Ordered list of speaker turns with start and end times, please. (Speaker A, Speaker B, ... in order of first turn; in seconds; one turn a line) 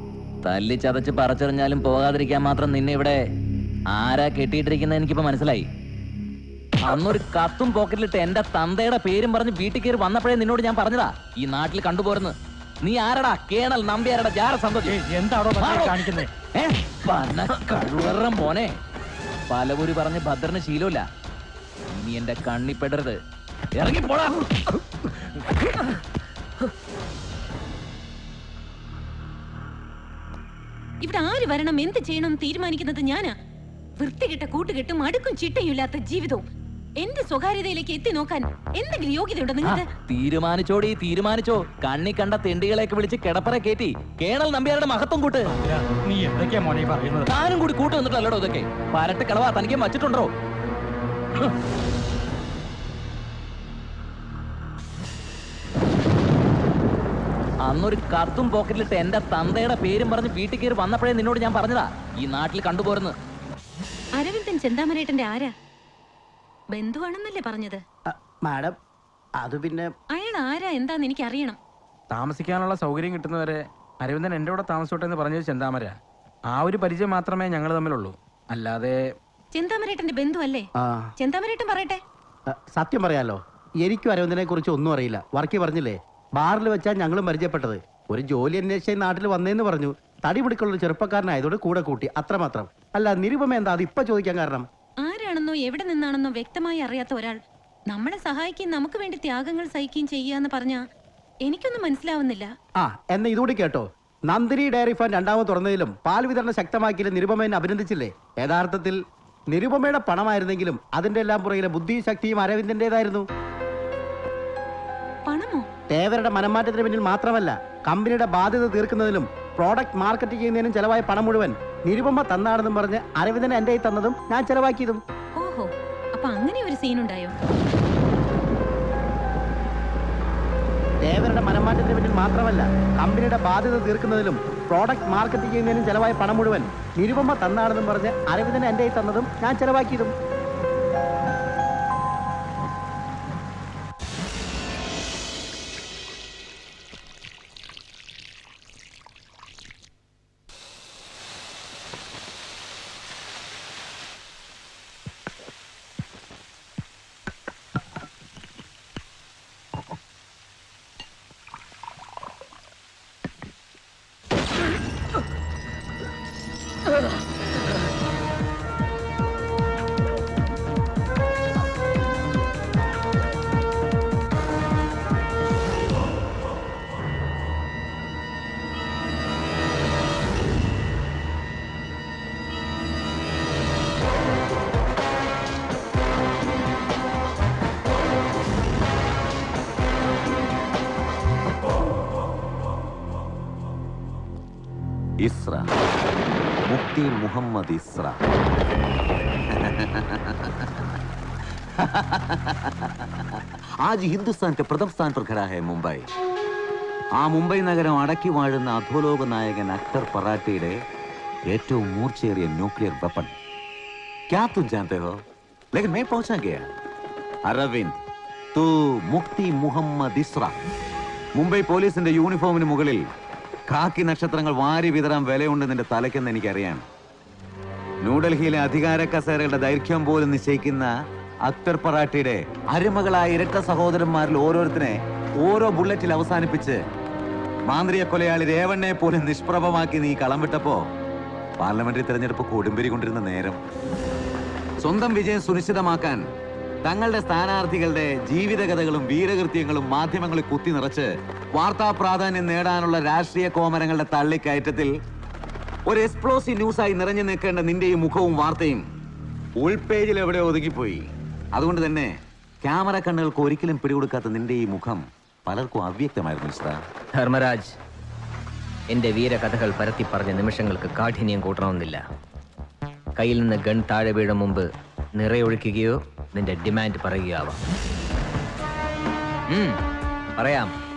Speaker A: 0.5-3.2
Speaker A: 3.9-5.6
Speaker A: 6.9-15.0
Speaker B: 14.9-16.3
Speaker A: 15.6-18.7
Speaker A: 19.5-21.0
Speaker A: 21.9-23.2
Speaker A: 23.8-24.5
Speaker C: 31.0-33.3
Speaker C: 34.0-36.4
Speaker C: 37.0-39.9
Speaker A: 40.1-45.5
Speaker B: 45.6-47.3
Speaker A: 47.3-50.3
Speaker A: 57.6-63.1
Speaker C: 64.2-65.5
Speaker C: 66.7-67.8
Speaker D: 68.1-68.7
Speaker D: 69.4-69.9
Speaker C: 70.1-71.6
Speaker E: 72.1-76.0
Speaker E: 76.5-79.1
Speaker C: 79.5-82.0
Speaker D: 80.8-81.1
Speaker D: 82.5-94.7
Speaker C: 95.0-97.4
Speaker C: 97.9-100.8
Speaker C: 101.5-102.5
Speaker D: 102.8-109.0
Speaker D: 109.5-113.2
Speaker C: 115.3-115.7
Speaker D: 115.9-125.0
Speaker C: 125.4-127.3
Speaker D: 131.0-140.1
Speaker F: 195.2-195.7
Speaker F: 196.7-198.1
Speaker F: 199.6-200.2
Speaker F: 201.8-202.7
Speaker F: 203.9-206.0
Speaker F: 207.2-210.8
Speaker F: 211.5-213.3
Speaker F: 214.3-215.2
Speaker F: 215.7-216.7
Speaker F: 217.5-217.9
Speaker F: 218.5-220.5
Speaker F: 221.3-223.0
Speaker F: 223.7-226.8
Speaker F: 228.0-230.9
Speaker F: 231.5-236.8
Speaker F: 237.7-240.8
Speaker F: 241.6-243.6
Speaker F: 244.8-246.2
Speaker F: 246.8-254.9
Speaker F: 255.9-258.8
Speaker F: 259.6-261.0
Speaker F: 261.6-262.1
Speaker F: 262.6-266.8
Speaker G: 267.1-267.7
Speaker G: 268.9-272.0
Speaker G: 273.2-274.7
Speaker G: 275.2-277.6
Speaker G: 279.5-279.8
Speaker G: 280.4-280.7